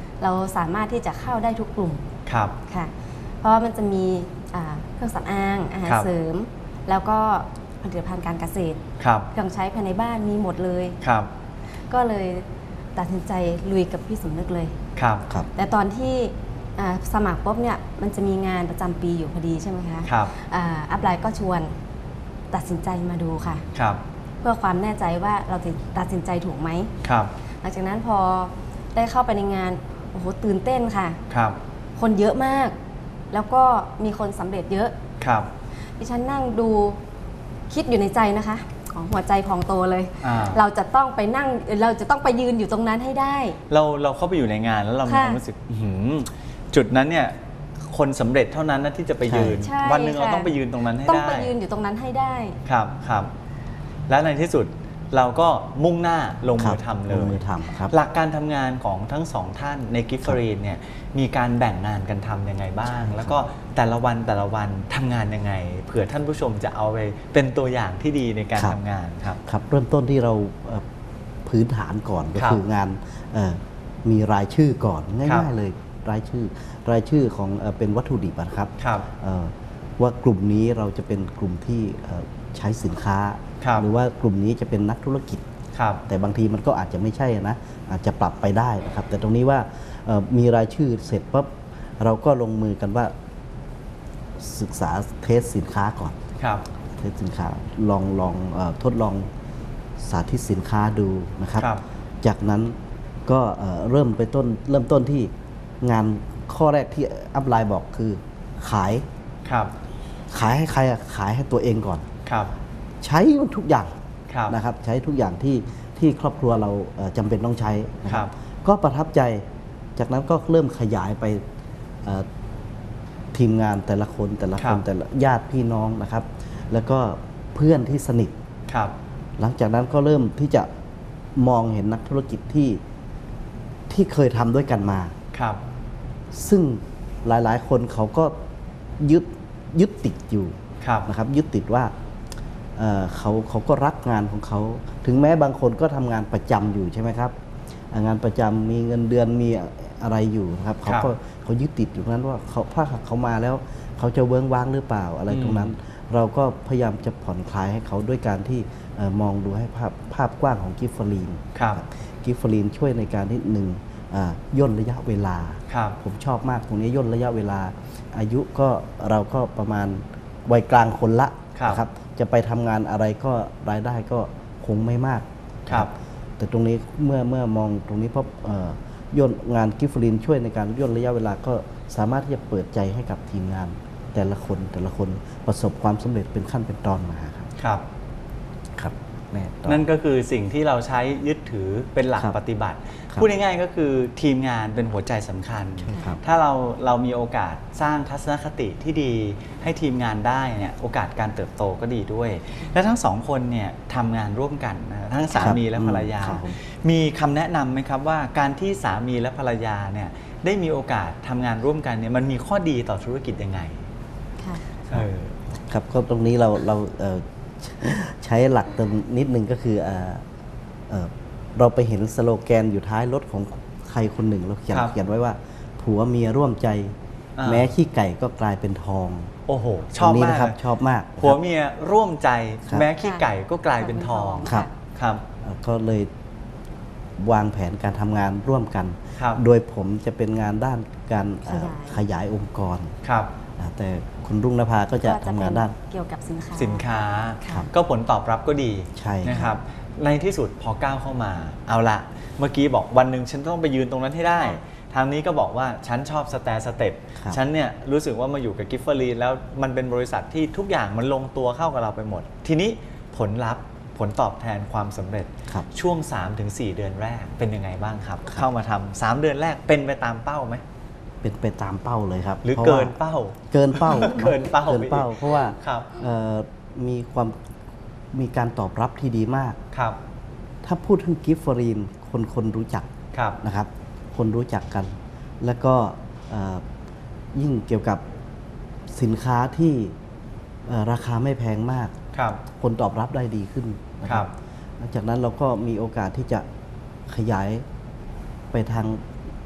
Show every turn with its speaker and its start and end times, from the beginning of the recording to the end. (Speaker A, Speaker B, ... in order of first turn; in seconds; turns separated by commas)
Speaker A: 0.2-2.1, Speaker B: 2.2-2.6, Speaker A: 2.7-11.0, Speaker B: 9.0-9.3, Speaker B: 11.0-11.3, Speaker A: 11.9-14.8, Speaker B: 14.9-15.3, Speaker A: 15.5-21.7, Speaker B: 20.0-20.3, Speaker A: 22.5-23.6, Speaker B: 23.7-24.0, Speaker A: 24.4-26.9, Speaker B: 27.0-27.3, Speaker A: 27.6-31.2, Speaker B: 31.3-31.6, Speaker A: 31.9-32.7, Speaker A: 33.3-35.0, Speaker B: 35.2-35.5, Speaker A: 36.0-37.0, Speaker A: 37.7-43.6, Speaker B: 40.2-40.6, Speaker B: 43.7-47.3, Speaker A: 45.0-45.4, Speaker B: 47.9-51.5, Speaker C: 49.2-49.6, Speaker A: 49.6-52.6, Speaker B: 52.6-53.3, Speaker B: 54.1-69.4, Speaker C: 56.6-57.9, Speaker C: 62.9-63.4, Speaker C: 69.4-70.8, Speaker C: 71.5-85.4, Speaker B: 72.3-72.6, Speaker B: 78.8-79.0, Speaker B: 83.6-83.8, Speaker B: 85.7-86.0, Speaker C: 86.1-93.1, Speaker C: 94.4-96.2, Speaker B: 96.4-96.6, Speaker C: 97.0-99.3, Speaker C: 100.0-101.7, Speaker B: 101.6-101.8, Speaker C: 102.2-109.0, Speaker B: 109.4-109.7, Speaker C: 110.3-112.1, Speaker B: 112.2-112.5, Speaker C: 113.0-113.9, Speaker B: 114.3-114.5, Speaker C: 114.5-119.4, Speaker C: 120.0-121.4, Speaker C: 123.3-128.3, Speaker B: 124.6-124.8, Speaker B: 128.7-128.9, Speaker C: 129.4-130.7, Speaker C: 131.4-132.8, Speaker C: 133.9-135.1, Speaker B: 135.3-135.6, Speaker C: 136.3-138.3, Speaker C: 139.0-141.9, Speaker B: 140.8-141.1, Speaker C: 142.8-147.3, Speaker C: 147.9-187.5, Speaker B: 150.8-151.1, Speaker B: 155.3-155.7, Speaker B: 161.5-161.8, Speaker B: 165.7-166.0, Speaker B: 171.5-171.8, Speaker B: 187.6-187.8, Speaker C: 188.8-189.8, Speaker B: 189.7-213.8, Speaker C: 195.8-196.2, Speaker A: 195.9-196.2, Speaker C: 205.4-206.6, Speaker A: 214.4-214.8, Speaker B: 214.9-215.3, Speaker C: 215.7-220.2, Speaker C: 220.9-229.3, Speaker B: 227.4-227.7, Speaker B: 229.5-230.6, Speaker C: 229.9-231.4, Speaker B: 231.2-235.2, Speaker A: 233.0-233.2, Speaker A: 233.8-234.7, Speaker C: 235.4-236.1, Speaker C: 237.2-242.9, Speaker B: 239.2-239.4, Speaker A: 241.4-242.0, Speaker B: 243.0-243.3, Speaker C: 243.6-245.7, Speaker A: 245.0-246.8, Speaker B: 246.6-270.6, Speaker A: 247.4-247.7, Speaker C: 248.9-249.5, Speaker C: 271.2-272.9, Speaker B: 272.4-276.0, Speaker C: 273.5-277.4, Speaker C: 278.1-279.6, Speaker B: 279.7-280.0, Speaker C: 280.6-286.6, Speaker B: 283.1-283.4, Speaker C: 287.3-288.0, Speaker C: 288.9-289.9, Speaker C: 290.6-291.9, Speaker B: 292.1-292.4, Speaker C: 292.6-296.4, Speaker C: 297.1-297.6, Speaker C: 298.5-299.0